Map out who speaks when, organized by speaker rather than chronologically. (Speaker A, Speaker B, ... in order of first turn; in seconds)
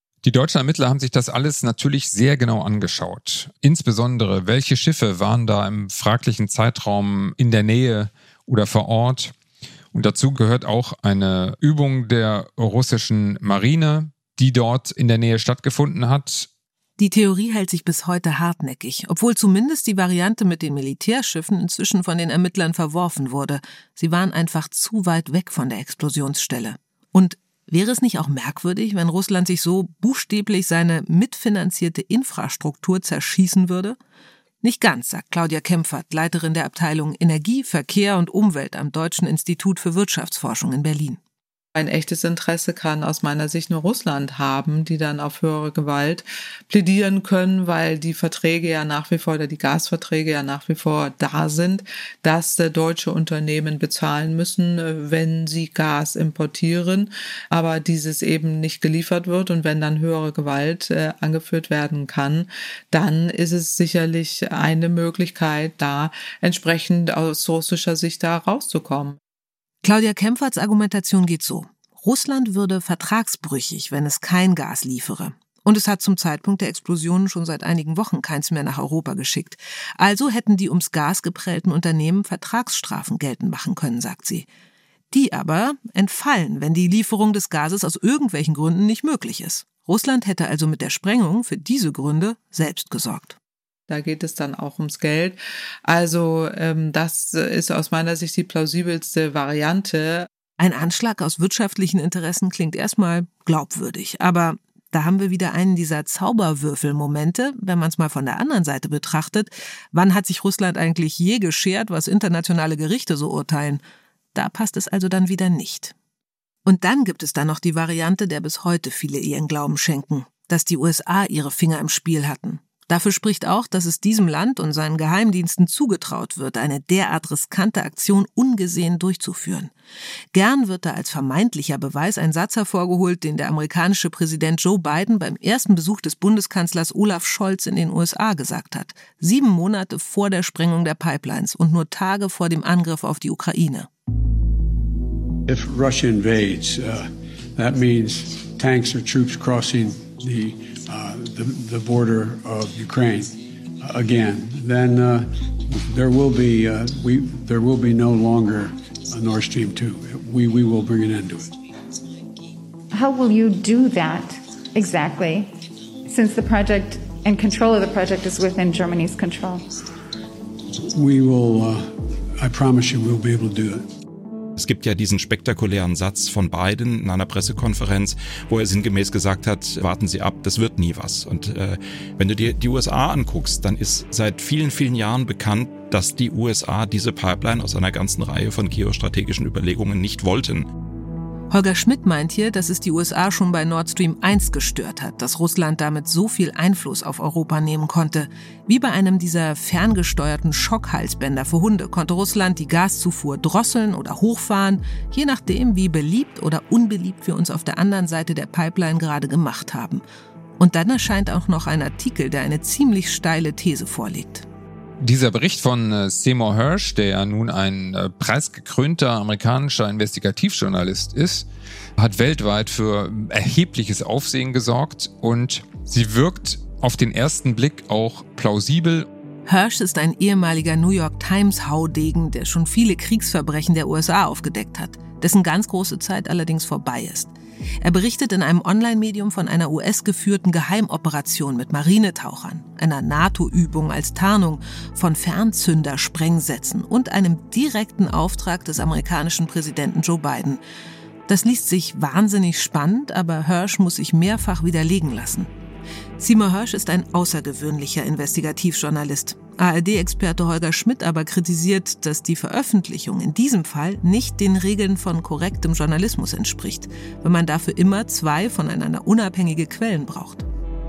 Speaker A: 0.2-9.3, 9.9-16.5, 215.0-229.1
Speaker B: 17.0-34.0, 34.6-41.2, 69.8-84.5, 85.1-93.4, 100.6-113.8, 114.3-115.9, 116.7-129.7, 130.3-143.9, 191.5-210.0, 210.6-214.5, 229.5-250.6, 251.3-255.5, 256.2-270.5
Speaker C: 41.8-69.2, 93.9-100.3
Speaker D: 145.5-161.5, 170.9-173.9
Speaker E: 162.9-169.7
Speaker F: 174.6-190.7